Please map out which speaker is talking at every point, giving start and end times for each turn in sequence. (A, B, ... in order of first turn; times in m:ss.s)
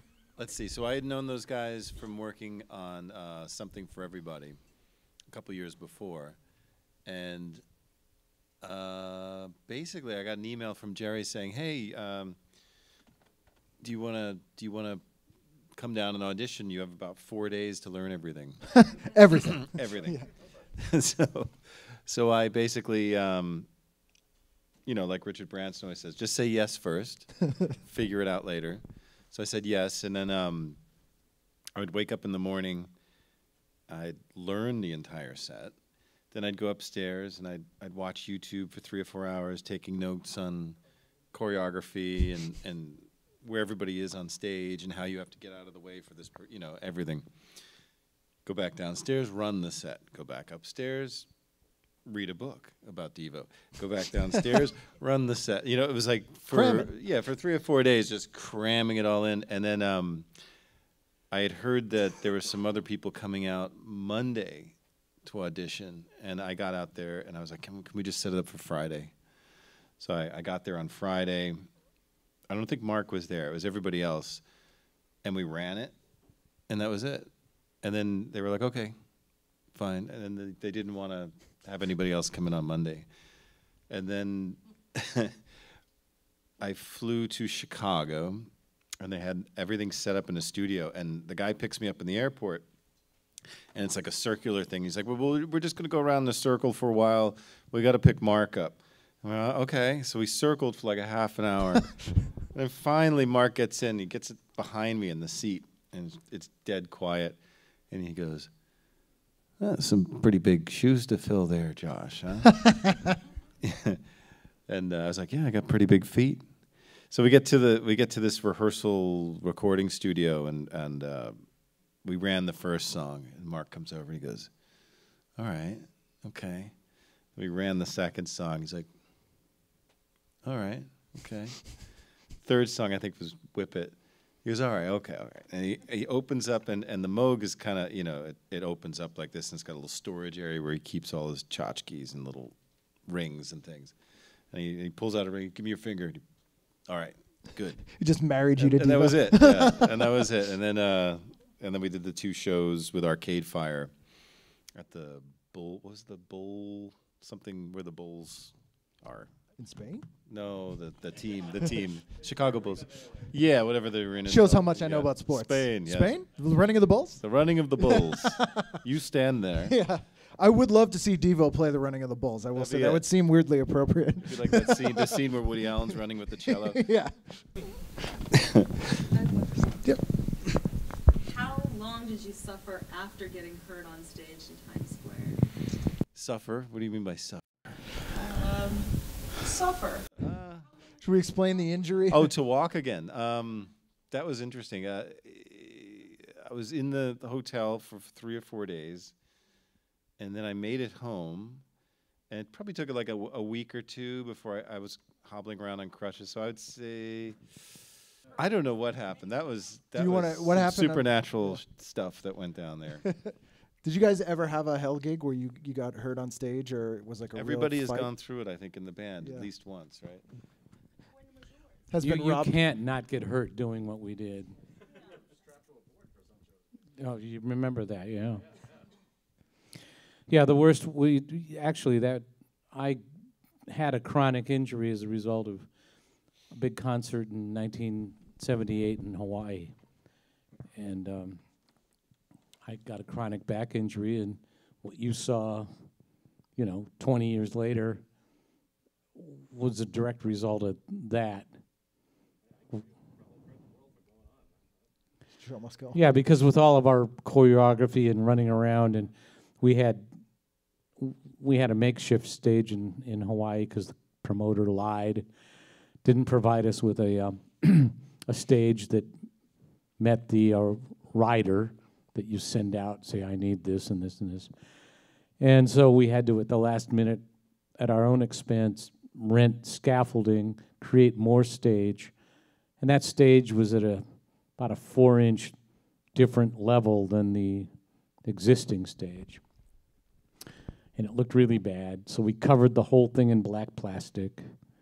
0:00.4-0:04.6 A
0:05.3-0:06.4 A
0:07.0-0:07.6 A
0:08.6-0:12.4 A
0:13.8-0:15.0 A
0:15.7-0:20.2 A
0:18.8-0:20.2 B
0:20.8-0:21.5 A
0:22.0-0:23.7 A
0:24.8-0:30.8 A
0:31.8-0:32.9 A
0:33.9-0:35.7 A
0:36.3-0:40.8 A
0:41.3-0:47.2 A
0:48.4-0:51.3 A
0:52.0-1:00.3 A
0:56.5-0:56.9 B
1:01.3-1:09.1 A
1:10.0-1:11.6 A
1:12.5-1:14.4 A
1:15.2-1:15.9 A
1:16.7-1:17.3 A
1:17.8-1:18.9 A
1:19.7-1:23.0 A
1:23.9-1:25.3 A
1:26.6-1:32.6 A
1:33.7-1:42.0 A
1:42.5-1:47.4 A
1:47.9-1:48.5 A
1:49.6-1:52.8 A
1:52.6-1:52.9 B
1:53.6-1:54.0 A
1:54.7-1:56.5 A
1:57.1-2:01.4 A
2:02.0-2:04.5 A
2:05.4-2:06.7 A
2:07.4-2:08.9 A
2:10.4-2:11.7 A
2:12.4-2:22.5 A
2:23.0-2:23.9 A
2:24.5-2:26.2 A
2:26.9-2:27.9 A
2:27.9-2:30.1 B
2:28.6-2:33.9 A
2:34.7-2:39.3 A
2:39.6-2:40.1 B
2:40.3-2:46.2 A
2:44.2-2:47.2 B
2:47.2-2:49.7 A
2:47.8-2:48.8 B
2:49.6-2:55.2 B
2:52.5-2:53.0 A
2:54.2-2:56.8 A
2:56.4-2:57.6 B
2:59.1-2:59.9 C
3:01.2-3:05.4 C
3:06.1-3:07.4 A
3:08.1-3:10.1 C
3:10.2-3:10.7 A
3:11.0-3:12.3 B
3:12.1-3:19.1 A
3:20.2-3:21.6 A
3:22.3-3:27.5 A
3:28.3-3:33.0 A
3:30.0-3:31.6 B
3:33.0-3:38.1 B
3:37.4-3:40.2 A
3:39.2-3:39.5 B
3:41.9-3:42.6 B
3:42.0-3:44.5 D
3:47.0-3:48.4 D
3:50.3-3:53.0 D
3:53.7-3:55.7 D
3:56.5-3:59.7 D
4:00.7-4:01.4 D
4:02.6-4:05.7 D
4:06.6-4:08.0 D
4:09.2-4:11.5 D
4:15.4-4:16.0 B
4:15.9-4:20.1 D
4:21.0-4:25.2 D
4:26.0-4:29.1 D
4:30.0-4:34.5 D
4:35.4-4:37.2 D
4:37.8-4:42.1 D
4:42.8-4:44.0 D
4:44.6-4:45.6 D
4:46.1-4:47.7 D
4:48.2-4:49.4 D
4:51.0-4:54.5 D